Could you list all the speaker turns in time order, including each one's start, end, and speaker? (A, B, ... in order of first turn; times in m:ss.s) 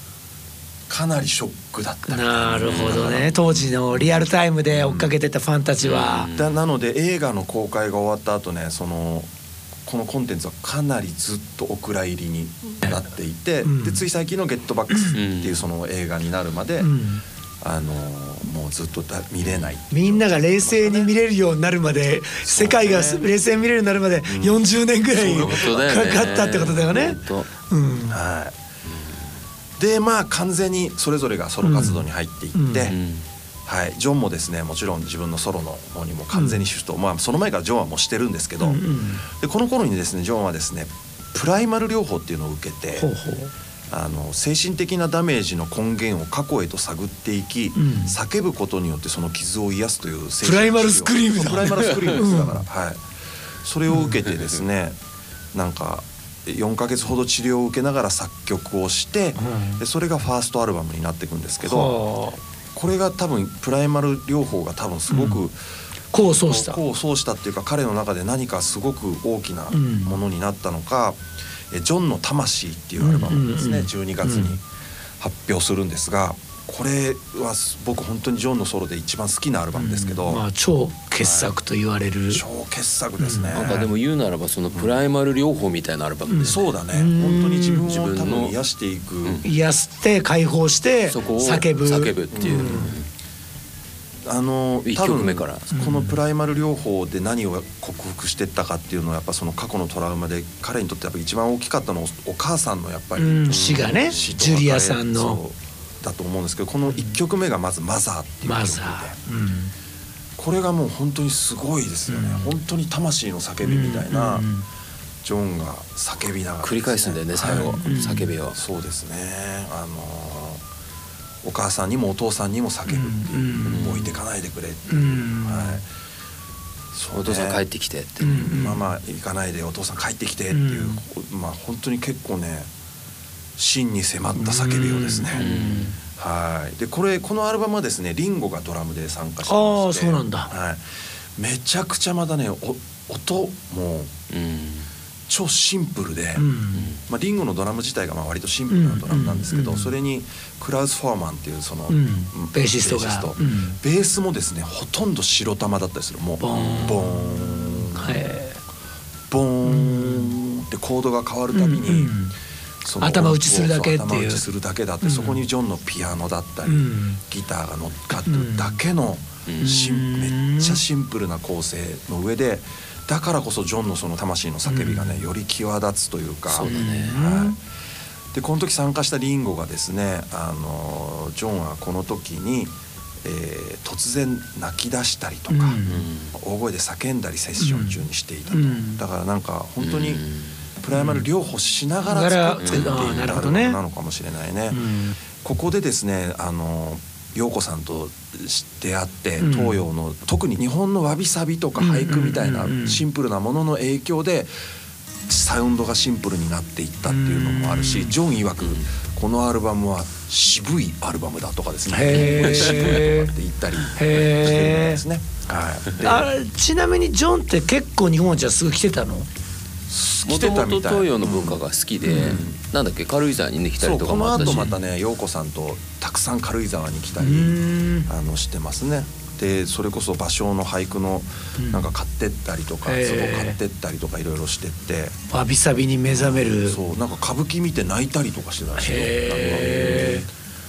0:00.9-0:04.2 A
0:02.1-0:06.3 B
0:02.6-0:03.3 C
0:04.7-0:05.1 A
0:05.8-0:06.5 C
0:06.4-0:09.3 A
0:09.8-0:16.9 A
0:13.6-0:14.0 B
0:14.9-0:15.2 B
0:15.1-0:15.6 C
0:16.8-0:17.2 B
0:17.6-0:21.1 A
0:19.4-0:19.7 C
0:19.9-0:28.2 B
0:22.4-0:23.3 A
0:24.3-0:24.6 A
0:25.1-0:25.8 A
0:25.2-0:27.5 C
0:28.1-0:28.5 A
0:29.8-0:33.0 A
0:31.6-0:32.0 B
0:32.5-0:32.9 B
0:32.9-0:33.2 C
0:33.6-0:43.1 A
0:36.3-0:36.6 B
0:38.6-0:39.2 B
0:43.0-0:43.5 B
0:43.9-0:53.0 A
0:47.7-0:48.2 B
0:50.4-0:52.6 B
0:53.6-0:55.0 A
0:53.9-0:54.2 B
0:55.5-1:02.0 A
0:59.4-0:59.8 B
1:01.6-1:02.4 B
1:02.7-1:05.6 A
1:05.1-1:05.4 B
1:06.1-1:06.8 B
1:06.2-1:14.6 A
1:09.7-1:10.2 B
1:13.0-1:14.6 B
1:15.2-1:20.4 A
1:19.7-1:22.4 B
1:21.2-1:21.5 A
1:22.3-1:23.9 A
1:23.2-1:23.7 B
1:23.5-1:26.7 C
1:26.3-1:27.9 B
1:26.4-1:29.4 A
1:27.8-1:28.6 C
1:29.4-1:32.9 B
1:31.1-1:33.0 C
1:32.3-1:32.9 A
1:34.2-1:49.2 A
1:34.8-1:35.7 C
1:35.7-1:36.2 B
1:43.2-1:45.4 B
1:43.5-1:44.3 C
1:46.9-1:47.2 B
1:48.4-1:49.7 B
1:50.4-1:54.5 A
1:52.1-1:52.5 B
1:53.6-1:54.6 B
1:55.2-2:00.6 A
1:56.6-1:58.6 C
1:57.4-1:58.3 B
2:01.4-2:05.8 A
2:02.9-2:04.0 B
2:03.6-2:04.1 C
2:04.9-2:05.8 B
2:06.9-2:07.6 A
2:07.1-2:08.6 C
2:08.2-2:08.8 B
2:08.2-2:12.7 A
2:10.5-2:11.0 B
2:13.6-2:15.5 A
2:14.4-2:16.0 B
2:15.3-2:15.9 C
2:16.1-2:24.1 A
2:19.4-2:20.5 B
2:24.3-2:24.9 C
2:25.3-2:26.5 A
2:26.4-2:26.9 B
2:27.0-2:38.3 A
2:28.7-2:29.9 B
2:31.9-2:33.8 B
2:36.4-2:38.6 B
2:36.5-2:37.0 C
2:39.3-2:42.1 A
2:39.6-2:40.4 B
2:41.5-2:42.3 B
2:42.8-2:57.6 A
2:43.0-2:44.4 B
2:45.0-2:45.4 B
2:46.6-2:47.2 B
2:48.1-2:48.8 B
2:49.5-2:49.7 C
2:49.6-2:50.8 B
2:54.6-2:55.2 B
2:56.5-2:57.2 C
2:56.6-2:57.6 B
2:58.3-3:05.8 A
3:05.5-3:06.0 B
3:05.8-3:06.3 C
3:06.3-3:10.2 A
3:07.6-3:09.0 B
3:09.8-3:10.6 C
3:10.8-3:14.8 A
3:10.9-3:11.2 B
3:12.0-3:13.8 B
3:12.6-3:13.4 C
3:14.7-3:15.2 B
3:15.4-3:24.5 A
3:19.4-3:19.8 B
3:21.8-3:23.0 B
3:25.3-3:36.3 A
3:27.0-3:28.1 B
3:28.6-3:28.8 C
3:31.9-3:33.3 B
3:32.1-3:33.0 C
3:33.9-3:35.0 B
3:36.0-3:39.3 B
3:39.9-3:42.6 A
3:40.2-3:44.7 C
3:42.0-3:42.4 B
3:43.8-3:55.2 A
3:44.3-3:44.7 B
3:47.2-3:48.1 B
3:51.6-3:51.9 B
3:52.8-3:53.6 B
3:55.3-3:56.8 B
3:56.1-4:00.3 A
3:58.8-4:00.2 B
3:59.4-4:00.2 C